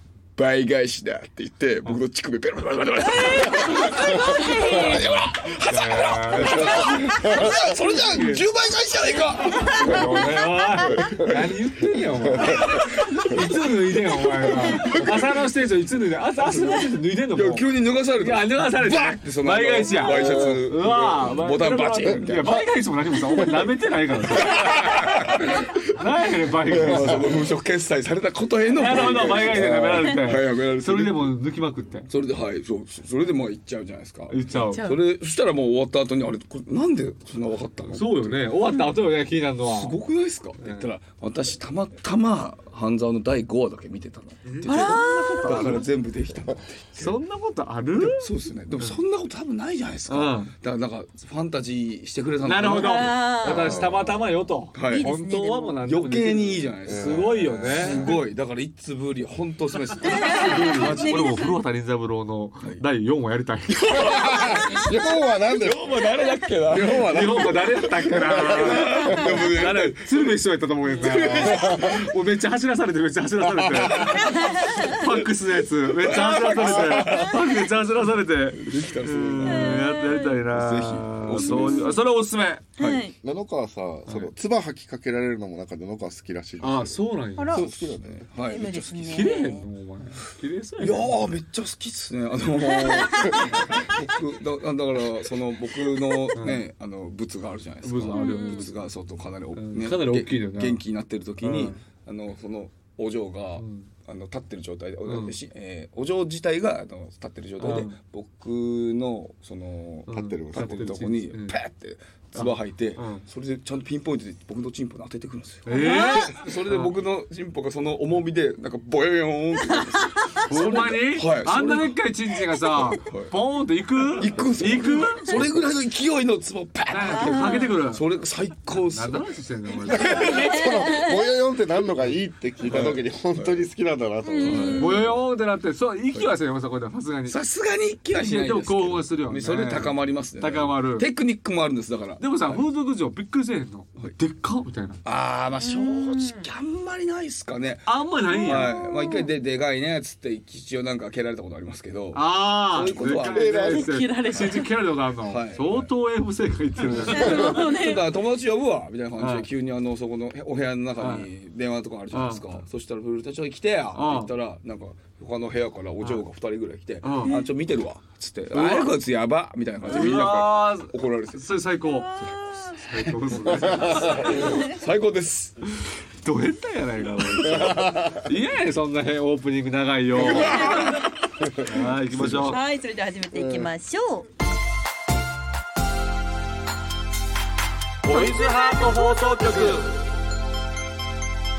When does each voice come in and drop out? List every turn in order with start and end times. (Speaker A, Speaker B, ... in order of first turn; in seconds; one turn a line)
Speaker A: 0.3-11.4
Speaker B: 3.2-5.0
Speaker C: 4.7-5.1
Speaker D: 4.7-5.0
Speaker D: 5.7-8.4
Speaker C: 6.7-7.7
Speaker D: 9.6-27.5
Speaker B: 9.6-9.9
Speaker C: 10.9-11.3
Speaker C: 12.3-13.4
Speaker A: 17.3-22.6
Speaker C: 20.2-20.6
Speaker A: 24.4-25.8
Speaker A: 26.6-31.3
Speaker D: 28.7-32.1
Speaker A: 32.1-38.3
Speaker D: 34.3-34.9
Speaker B: 34.6-35.0
Speaker D: 37.9-40.0
Speaker B: 38.7-39.0
Speaker A: 39.6-47.2
Speaker D: 40.6-40.9
Speaker D: 44.5-45.9
Speaker B: 44.6-45.8
Speaker D: 47.0-49.0
Speaker A: 48.0-53.8
Speaker D: 50.1-50.5
Speaker D: 52.4-58.1
Speaker B: 52.7-53.8
Speaker C: 53.4-54.3
Speaker A: 54.7-55.1
Speaker B: 54.9-55.8
Speaker A: 55.8-61.5
Speaker C: 56.9-58.0
Speaker B: 60.0-61.6
Speaker D: 60.1-64.4
Speaker A: 63.7-64.9
Speaker C: 64.0-66.1
Speaker A: 65.5-70.3
Speaker C: 66.7-67.5
Speaker D: 66.8-82.7
Speaker C: 68.1-69.5
Speaker A: 70.9-72.1
Speaker C: 71.6-71.9
Speaker A: 73.5-75.2
Speaker B: 74.2-75.0
Speaker A: 76.0-77.6
Speaker A: 78.6-82.0
Speaker B: 79.5-80.4
Speaker B: 81.3-82.0
Speaker A: 82.8-83.0
Speaker B: 82.8-83.1
Speaker C: 83.2-88.2
Speaker D: 86.6-87.6
Speaker B: 87.4-87.6
Speaker A: 87.5-89.3
Speaker B: 88.5-89.6
Speaker D: 88.9-91.3
Speaker A: 90.8-122.0
Speaker B: 92.7-93.7
Speaker D: 96.3-96.6
Speaker D: 97.8-98.7
Speaker B: 98.1-98.7
Speaker D: 99.5-100.8
Speaker D: 101.4-101.8
Speaker D: 103.6-103.9
Speaker D: 105.0-105.4
Speaker D: 107.6-108.0
Speaker D: 110.1-111.5
Speaker C: 110.1-110.9
Speaker D: 112.3-113.2
Speaker D: 115.7-117.0
Speaker B: 115.7-116.3
Speaker D: 120.4-125.6
Speaker A: 122.5-123.3
Speaker A: 124.2-130.6
Speaker D: 126.9-128.1
Speaker B: 127.1-127.7
Speaker D: 128.7-130.3
Speaker C: 130.0-135.0
Speaker B: 130.1-131.2
Speaker A: 132.6-133.7
Speaker B: 134.2-135.0
Speaker A: 134.4-135.1
Speaker D: 134.7-137.4
Speaker A: 137.3-142.6
Speaker D: 138.1-141.1
Speaker D: 142.2-145.0
Speaker A: 145.0-153.9
Speaker B: 145.6-146.5
Speaker D: 147.8-148.8
Speaker B: 148.3-149.3
Speaker D: 152.1-157.6
Speaker C: 153.3-153.9
Speaker B: 153.6-154.7
Speaker A: 155.2-155.9
Speaker A: 156.8-171.4
Speaker B: 157.1-158.2
Speaker D: 159.2-159.5
Speaker D: 161.0-161.3
Speaker D: 162.1-162.6
Speaker D: 163.9-164.3
Speaker D: 167.0-167.4
Speaker D: 168.5-168.9
Speaker D: 169.8-174.5
Speaker B: 172.0-172.8
Speaker A: 173.1-175.6
Speaker C: 173.5-174.3
Speaker B: 174.4-174.7
Speaker D: 175.8-181.0
Speaker C: 177.5-178.3
Speaker A: 180.1-181.1
Speaker B: 180.4-181.0
Speaker C: 181.4-182.4
Speaker D: 181.6-182.6
Speaker A: 182.1-182.4
Speaker B: 182.4-184.3
Speaker C: 183.3-183.7
Speaker D: 188.0-190.0
Speaker B: 188.1-190.0